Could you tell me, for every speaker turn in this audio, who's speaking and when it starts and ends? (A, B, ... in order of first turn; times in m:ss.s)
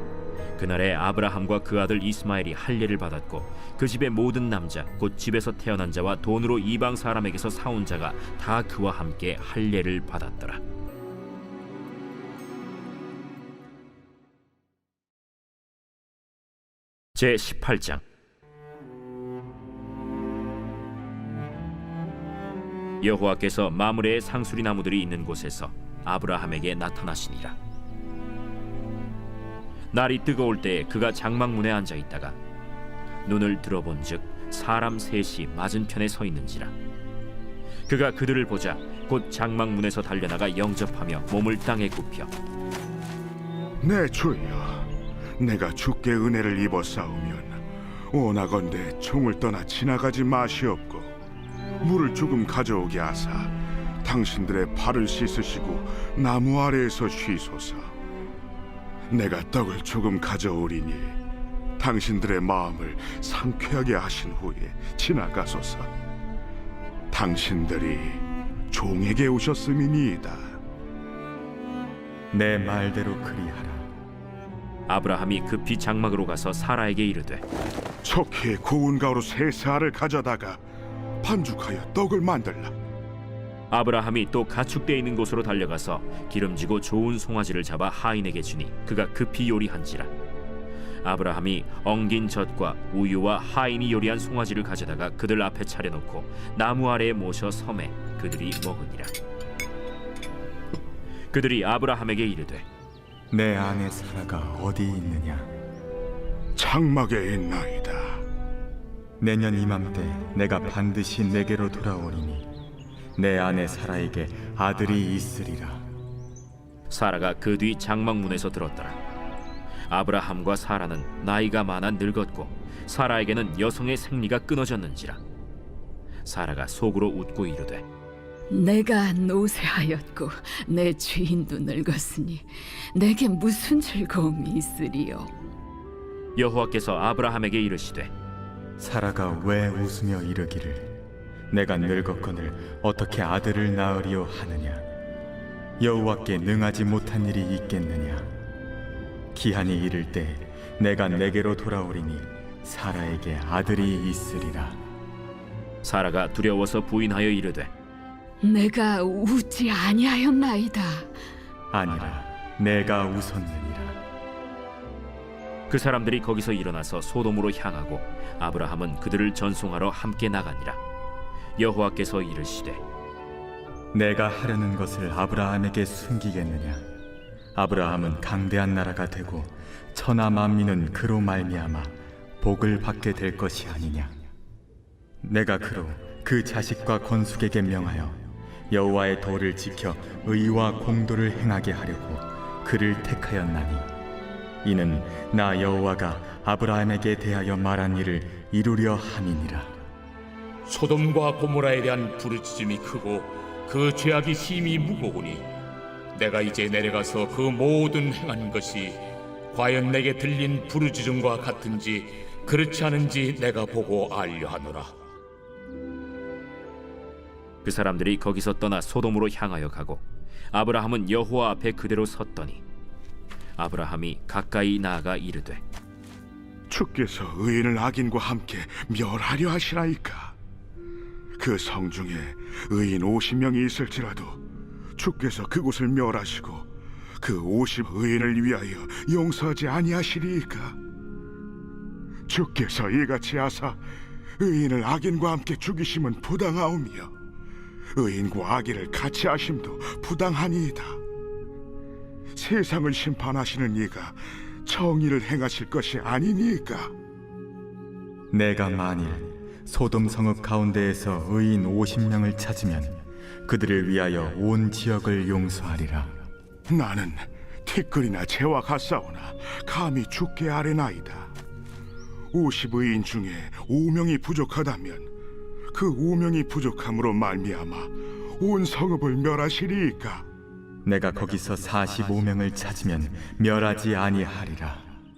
0:00.6-0:10.6 A
0:17.2-0:18.0 A
0:23.0-0:27.6 A
0:29.9-0:32.4 A
0:33.2-0:36.7 A
0:37.9-0:42.3 A
0:43.8-0:51.1 B
0:51.8-0:53.5 B
0:54.0-0:57.9 B
0:59.1-1:01.2 B
1:01.8-1:05.9 B
1:07.1-1:10.6 B
1:12.3-1:13.9 C
1:14.9-1:17.4 A
1:18.0-1:20.6 B
1:21.2-1:22.7 B
1:23.7-1:30.1 A
1:31.0-1:39.1 A
1:41.3-1:42.6 A
1:43.3-1:45.5 C
1:46.6-1:48.2 B
1:49.2-1:52.5 C
1:53.2-1:55.8 C
1:56.9-1:59.0 A
1:59.9-2:05.2 A
2:06.2-2:07.8 A
2:08.5-2:15.3 D
2:16.4-2:18.1 A
2:18.8-2:20.9 C
2:21.5-2:24.8 C
2:25.8-2:28.3 C
2:29.3-2:34.8 C
2:35.8-2:37.7 A
2:38.4-2:41.1 D
2:41.7-2:44.0 C
2:45.7-2:50.8 A
2:51.6-2:52.8 A
2:53.9-2:56.8 C
2:57.5-3:04.1 C
3:05.2-3:13.9 C
3:14.6-3:19.7 C
3:20.7-3:25.4 E
3:26.1-3:34.9 E
3:37.6-3:42.6 A
3:43.6-3:45.6 A
3:46.7-3:50.4 B
3:51.4-3:54.4 B
3:55.0-4:00.8 B
4:02.3-4:03.8 B
4:04.4-4:07.1 B
4:07.9-4:11.0 B
4:12.3-4:16.9 B
4:18.3-4:26.1 C
4:26.7-4:31.3 B
4:32.3-4:35.1 B
4:35.7-4:40.3 B
4:40.8-4:44.8 C